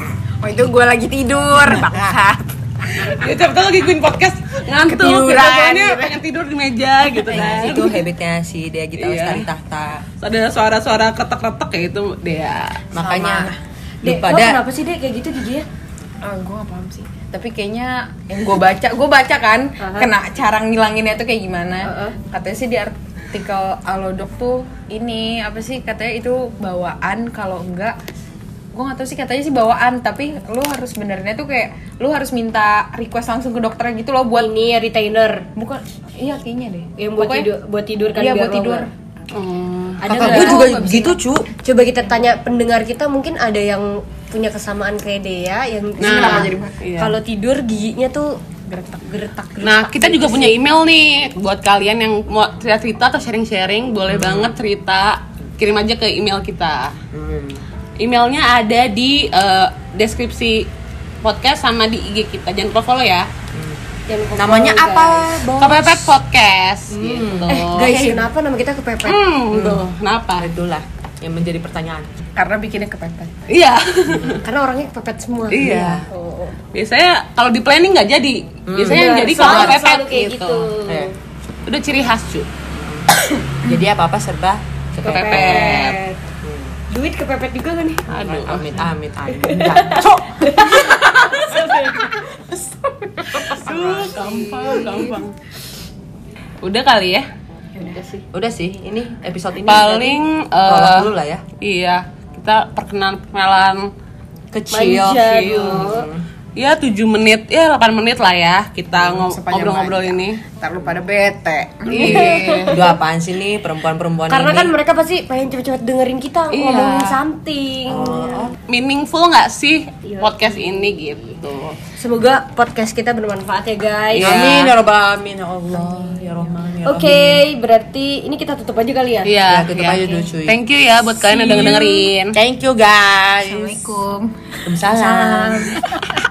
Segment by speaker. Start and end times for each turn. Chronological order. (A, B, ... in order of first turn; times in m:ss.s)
0:00.4-0:03.1 A
0:01.6-0:02.2 B
0:03.1-0:08.0 C
0:04.7-0:06.2 A
0:07.3-0:07.8 D
0:07.3-0:10.0 B
0:09.0-0:09.5 C
0:10.2-0:12.9 C
0:12.9-0:13.6 A
0:12.9-0:14.6 B
0:14.0-0:15.6 D
0:16.2-0:28.0 A
0:19.8-0:20.1 D
0:21.8-0:22.2 D
0:28.7-0:34.5 A
0:34.3-0:35.4 D
0:35.6-0:37.5 A
0:37.0-0:38.9 D
0:38.1-0:38.9 A
0:39.3-0:40.5 C
0:40.0-0:40.8 D
0:40.0-0:41.2 A
0:40.1-0:41.5 B
0:41.6-0:48.4 D
0:46.0-0:47.2 C
0:46.0-0:46.7 A
0:48.7-0:49.0 A
0:49.0-0:50.6 D
0:49.6-0:56.9 C
0:54.1-0:54.5 B
0:57.1-0:57.6 B
0:58.0-1:00.7 C
1:01.2-1:03.3 C
1:03.5-1:03.8 B
1:04.1-1:05.4 D
1:04.3-1:06.1 B
1:05.5-1:08.0 C
1:06.9-1:08.1 B
1:07.0-1:09.2 D
1:09.0-1:10.5 C
1:09.5-1:09.8 B
1:10.4-1:12.1 B
1:12.4-1:13.4 A
1:13.5-1:14.4 C
1:14.1-1:14.4 B
1:14.4-1:16.6 D
1:15.5-1:16.1 C
1:16.7-1:20.7 C
1:18.7-1:19.8 B
1:18.8-1:21.1 D
1:20.8-1:21.1 B
1:21.6-1:22.5 C
1:22.7-1:26.8 B
1:25.0-1:26.2 D
1:25.0-1:26.0 C
1:26.9-1:28.0 D
1:28.1-1:30.2 B
1:28.1-1:28.7 C
1:29.3-1:32.3 D
1:30.0-1:31.0 C
1:33.2-1:35.2 A
1:33.5-1:35.3 C
1:36.6-1:37.3 C
1:37.8-1:38.2 D
1:38.3-1:41.4 B
1:39.6-1:43.9 C
1:44.5-1:46.2 B
1:44.7-1:46.1 D
1:45.1-1:45.9 C
1:46.6-1:50.4 C
1:48.9-1:52.7 A
1:51.8-1:52.9 C
1:51.8-1:53.0 D
1:52.1-1:54.7 B
1:54.3-1:58.5 D
1:56.5-1:57.2 C
1:57.9-1:58.6 B
1:58.6-2:01.8 C
2:00.0-2:01.2 D
2:02.0-2:04.5 D
2:04.1-2:04.7 C
2:04.2-2:07.4 B
2:05.8-2:06.3 D
2:06.8-2:09.3 D
2:09.2-2:12.4 C
2:09.5-2:10.6 B
2:09.9-2:10.2 D
2:11.2-2:12.1 A
2:12.3-2:14.0 B
2:13.4-2:16.1 A
2:14.6-2:15.8 B